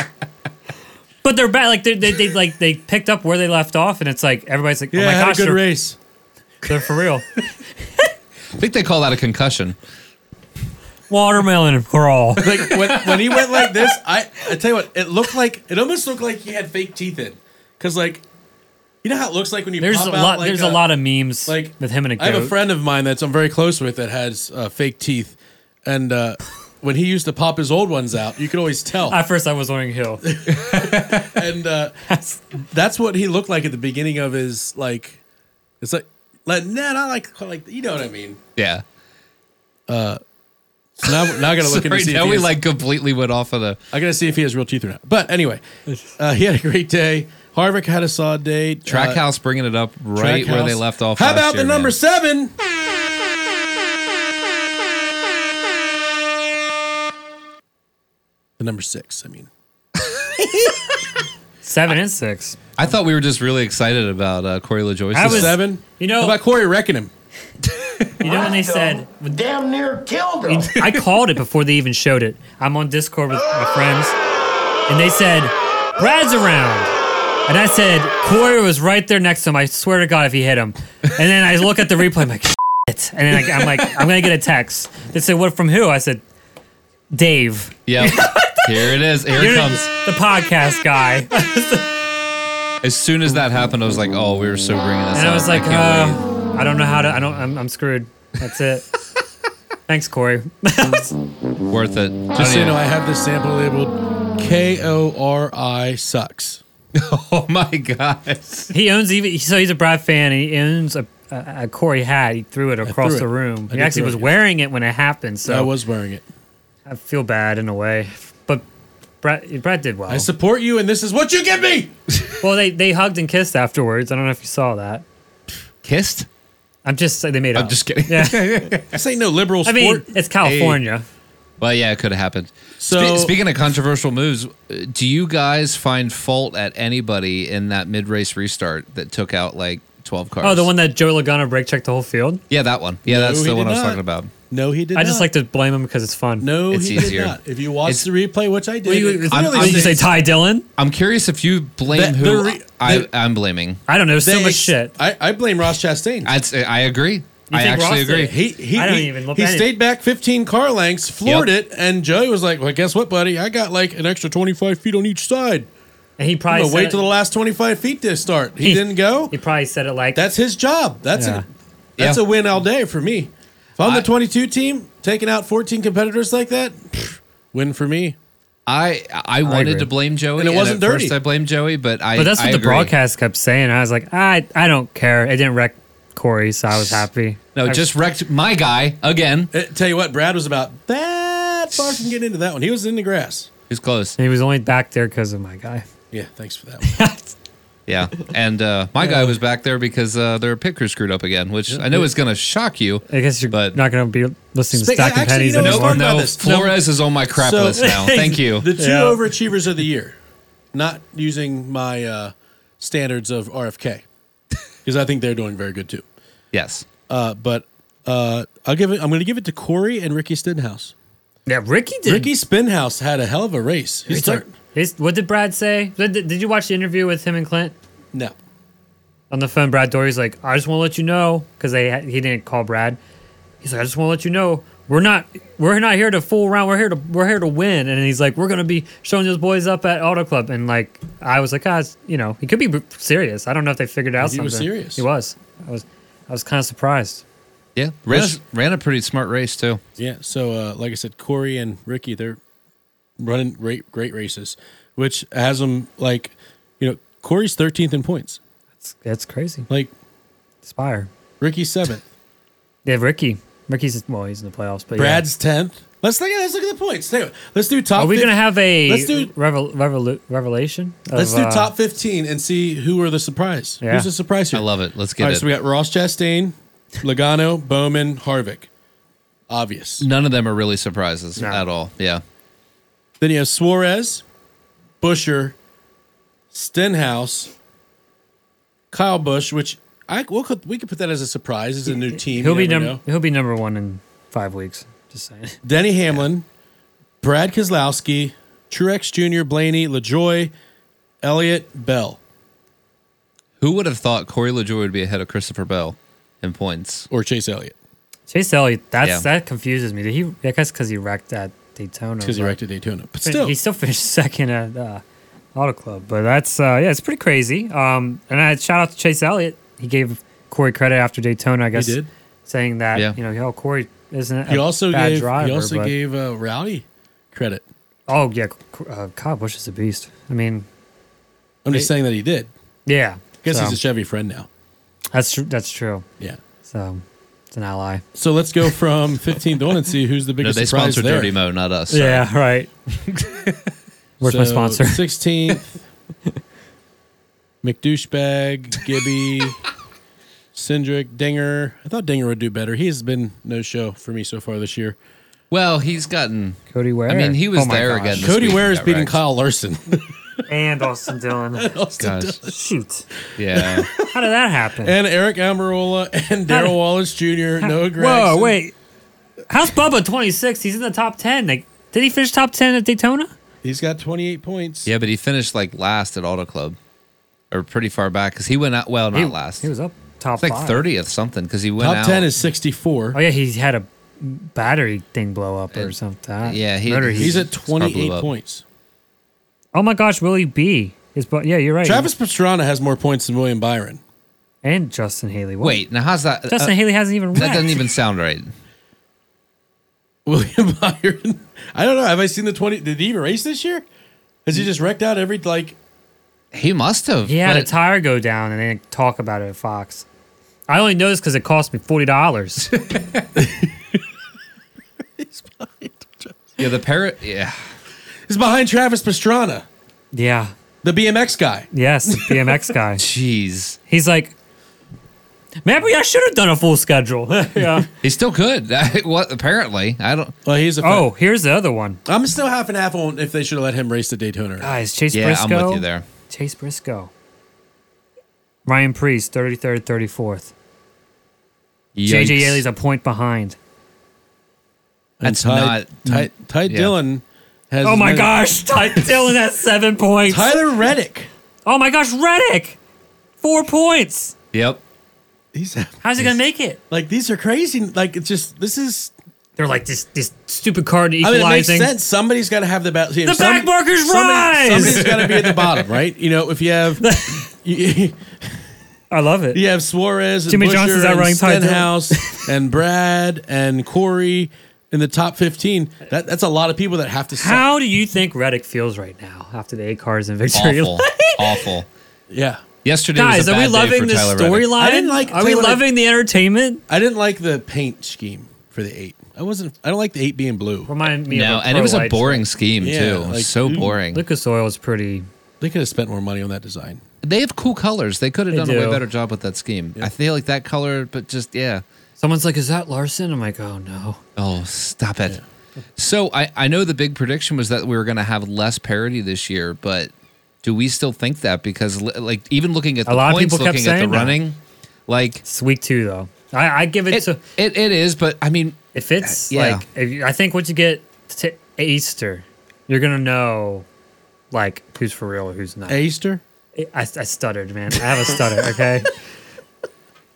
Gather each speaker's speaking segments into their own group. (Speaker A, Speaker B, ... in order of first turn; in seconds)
Speaker A: 1.2-5.6, 6.7-7.4, 11.1-12.5, 19.8-22.5, 29.1-30.3, 32.1-32.5, 61.6-62.6, 65.1-66.4, 68.2-69.5, 70.4-74.2, 74.9-76.9, 77.5-86.2, 87.1-92.0, 95.1-98.9, 99.9-101.2, 108.7-115.7, 116.9-118.7, 119.2-120.3, 122.4-125.0, 126.8-128.7, 129.7-131.1, 140.4-142.4, 144.9-146.5, 148.8-150.7, 153.9-154.9, 157.5-159.7, 166.2-167.1, 168.6-170.2, 171.1-171.4, 179.4-179.9, 182.2-187.9, 194.2-195.9, 196.8-197.3, 199.0-199.3, 203.1-206.6, 207.8-209.2, 221.5-222.3, 224.1-227.8, 229.3-233.0, 233.6-247.2, 258.8-259.7, 260.6-261.1, 262.9-265.3, 267.9-271.7, 273.8-274.1, 281.4-281.6, 291.9-295.6, 308.3-312.6, 313.3-315.0, 315.6-325.9, 328.1-330.7, 332.9-333.8, 335.1-336.1, 336.6-338.0, 341.9-342.7, 344.2-345.0, 356.7-358.3, 360.5-361.8, 362.4-363.1, 364.0-364.9, 366.5-366.8, 367.6-368.7, 369.5-373.3, 379.1-380.8, 383.1-387.5, 389.7-392.1, 394.6-395.8, 396.5-397.8, 407.3-410.1, 410.7-412.7, 420.1-420.5, 421.7-423.0, 423.9-424.4, 425.6-427.9, 430.8-432.0, 434.6-437.1, 438.7-440.5, 442.0-443.6, 447.8-450.6, 451.7-452.8, 453.4-454.3, 456.0-456.8, 459.6-461.9, 463.2-465.1, 467.0-467.5, 469.1-469.6, 470.5-472.5, 477.4-481.7, 483.1-486.8, 490.9-492.5, 493.7-495.3, 498.5-499.0, 502.2-504.2, 513.1-514.4, 515.5-517.4, 518.9-523.9, 524.5-526.0, 526.8-529.1
Speaker B: 4.9-6.0, 12.4-18.2, 19.0-20.9, 21.5-29.2, 30.2-32.0, 32.7-35.2, 35.8-38.4, 39.9-40.2, 41.0-42.5, 43.9-49.2, 50.1-52.5, 58.6-59.5, 65.2-67.1, 102.3-106.6, 112.8-114.3, 115.5-116.2, 120.1-121.9, 128.9-130.1, 132.8-133.3, 143.1-145.3, 146.4-150.1, 151.9-153.1, 154.2-156.3, 158.3-165.7, 166.5-169.3, 170.2-171.4, 172.0-178.2, 180.4-181.2, 189.5-193.5, 196.1-197.0, 201.7-202.0, 204.7-206.8, 207.3-210.2, 210.7-214.0, 214.8-216.0, 217.1-220.9, 222.1-224.5, 244.2-245.0, 248.1-248.4, 250.0-252.4, 253.2-258.4, 261.4-262.1, 264.9-269.3, 271.1-278.7, 279.5-280.1, 283.2-284.2, 285.0-285.6, 286.5-287.5, 288.9-293.0, 295.6-296.4, 297.2-300.5, 301.2-302.2, 307.1-307.8, 312.2-313.5, 321.7-322.1, 324.5-327.6, 331.6-332.5, 333.4-334.5, 338.2-341.3, 344.2-345.8, 347.6-349.7, 350.5-355.0, 358.2-360.4, 361.6-362.6, 363.3-364.1, 364.8-368.6, 373.6-374.9, 381.8-383.2, 387.1-388.6, 391.8-394.0, 400.3-403.9, 404.4-405.8, 413.4-414.0, 415.2-416.6, 418.3-419.6, 420.8-422.7, 430.5-431.1, 432.1-434.8, 445.2-449.1, 450.3-451.3, 455.5-456.3, 456.9-459.1, 461.2-468.6, 469.5-477.7, 482.3-482.6, 484.8-485.9, 486.9-490.9, 492.8-493.9, 495.6-497.0, 525.9-526.4
Speaker C: 8.5-9.8, 30.6-31.2, 38.6-38.8, 41.0-43.8, 48.9-52.0, 62.8-65.6, 87.9-89.9, 92.8-96.2, 101.7-102.8, 106.9-108.7, 125.8-126.3, 127.5-129.0, 130.4-130.8, 131.6-140.7, 142.5-144.3, 146.7-148.1, 149.3-150.1, 150.8-153.8, 156.2-158.3, 173.8-174.1, 178.7-182.9, 187.6-189.5, 193.7-194.2, 197.9-203.8, 205.6-208.7, 216.5-216.9, 247.8-249.8, 274.5-275.5, 280.0-282.2, 303.6-307.1, 340.4-342.3, 343.1-343.6, 355.5-359.2, 362.0-362.4, 363.4-363.9, 374.9-376.8, 377.5-379.7, 380.4-382.3, 385.7-388.3, 395.6-396.7, 397.3-398.5, 406.5-407.7, 412.8-413.1, 416.6-417.6, 423.0-423.8, 428.0-430.4, 435.1-436.1, 441.9-442.6, 445.2-446.9, 454.5-454.8, 464.8-465.5, 480.5-481.9, 482.8-484.7, 491.3-494.2, 497.2-501.8, 504.4-505.4, 506.0-510.1, 510.6-515.4, 517.1-519.8
Speaker D: 68.2-70.7